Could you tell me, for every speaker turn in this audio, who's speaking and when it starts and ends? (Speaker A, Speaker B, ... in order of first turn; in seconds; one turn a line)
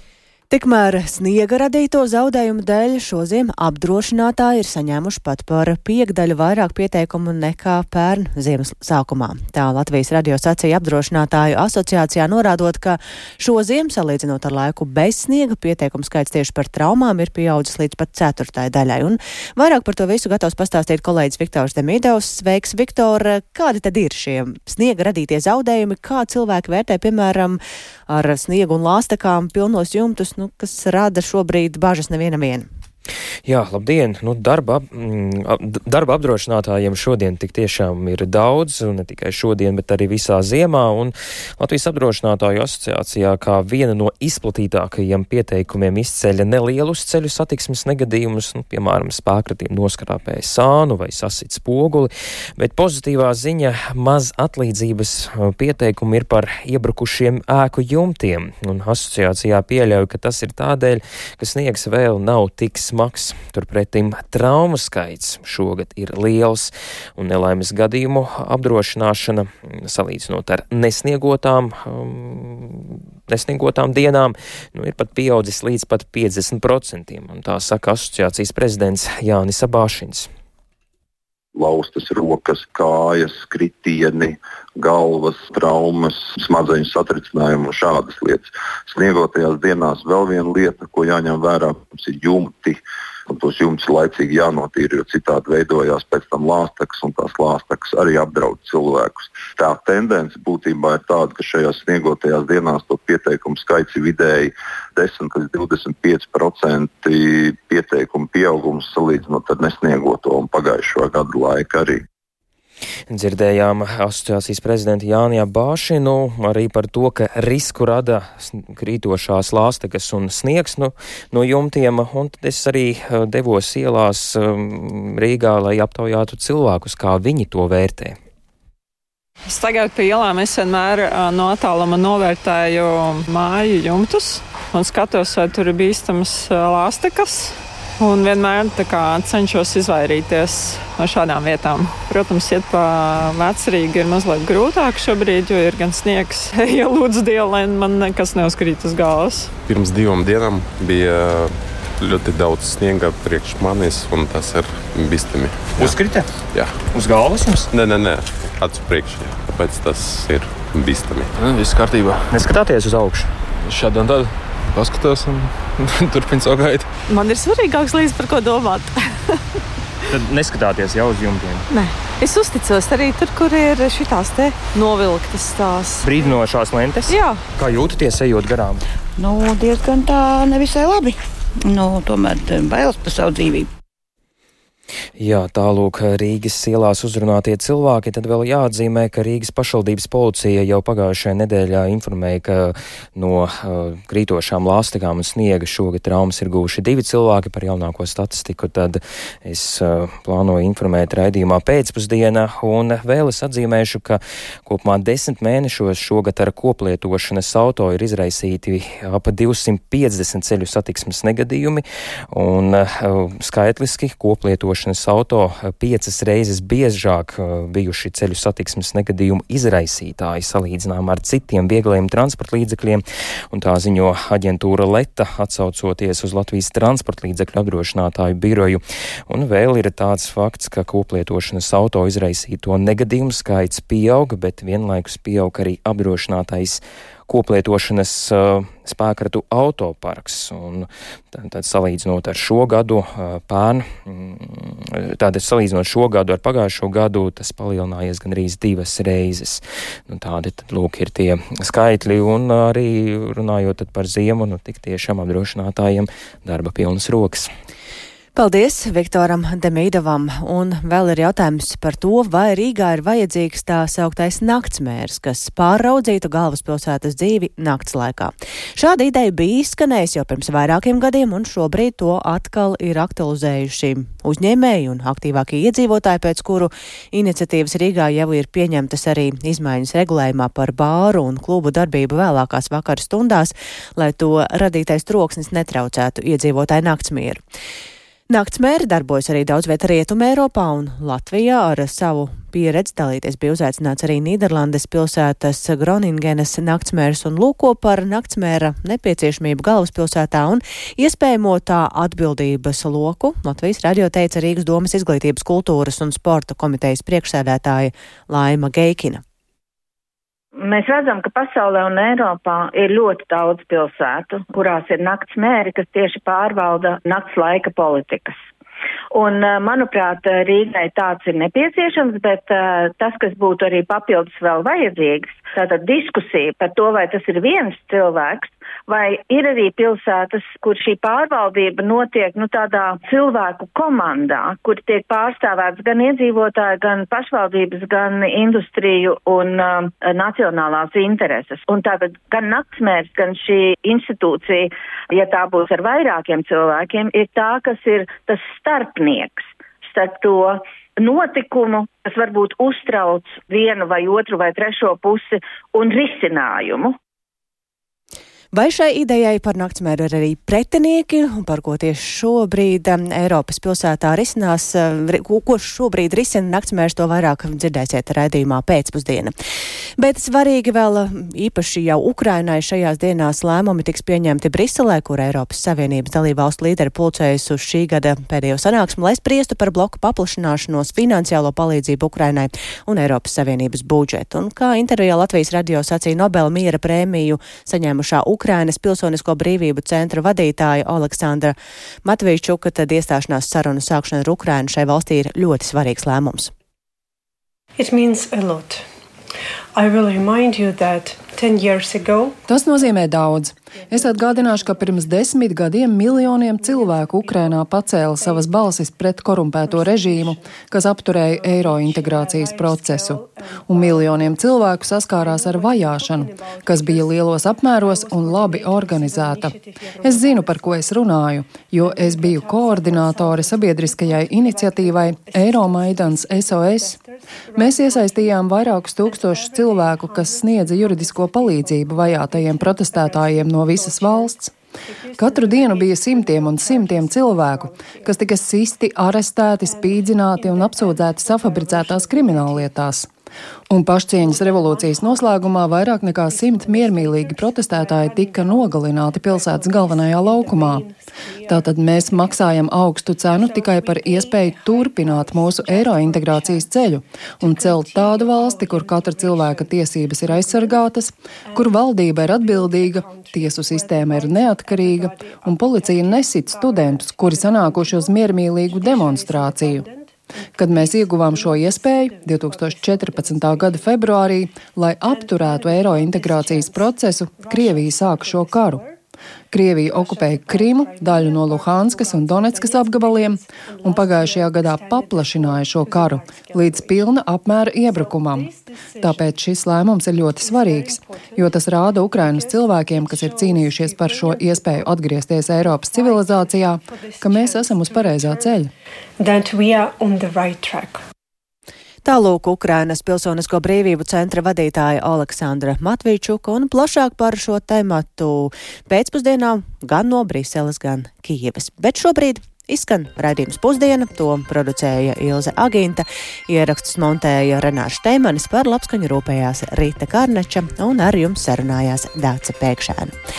Speaker A: 0.5-32.7
Speaker B: 33.5-80.3
Speaker C: 81.5-112.0
Speaker B: 113.1-128.2
Speaker D: 129.5-149.5
Speaker E: 149.7-156.0
Speaker E: 156.5-156.8
Speaker F: 157.0-157.6
Speaker E: 157.7-161.3
Speaker F: 162.3-163.2
Speaker G: 167.1-169.3
Speaker F: 170.2-171.6
Speaker G: 171.7-176.2
Speaker F: 176.1-178.7
Speaker G: 177.1-177.4
Speaker H: 179.2-183.7
Speaker B: 185.2-257.5
Speaker A: 258.4-287.4
Speaker A: 288.3-309.2
Speaker I: 310.6-318.4
Speaker I: 319.1-357.0
Speaker A: 358.5-369.3
Speaker A: 370.0-396.5
Speaker J: 397.8-398.9
Speaker J: 399.8-402.9
Speaker K: 402.5-427.0
Speaker J: 403.7-438.4
Speaker K: 427.6-434.5
Speaker K: 435.2-443.1
Speaker J: 439.5-442.8
Speaker K: 443.7-450.9
Speaker J: 444.2-452.7
Speaker K: 451.4-469.9
Speaker J: 453.3-456.7
Speaker J: 457.4-460.9
Speaker J: 461.5-479.0
Speaker K: 470.6-478.9
Speaker K: 479.5-498.7
Speaker J: 479.9-489.3
Speaker J: 490.4-498.7
Speaker J: 499.2-501.0
Speaker A: 502.0-523.2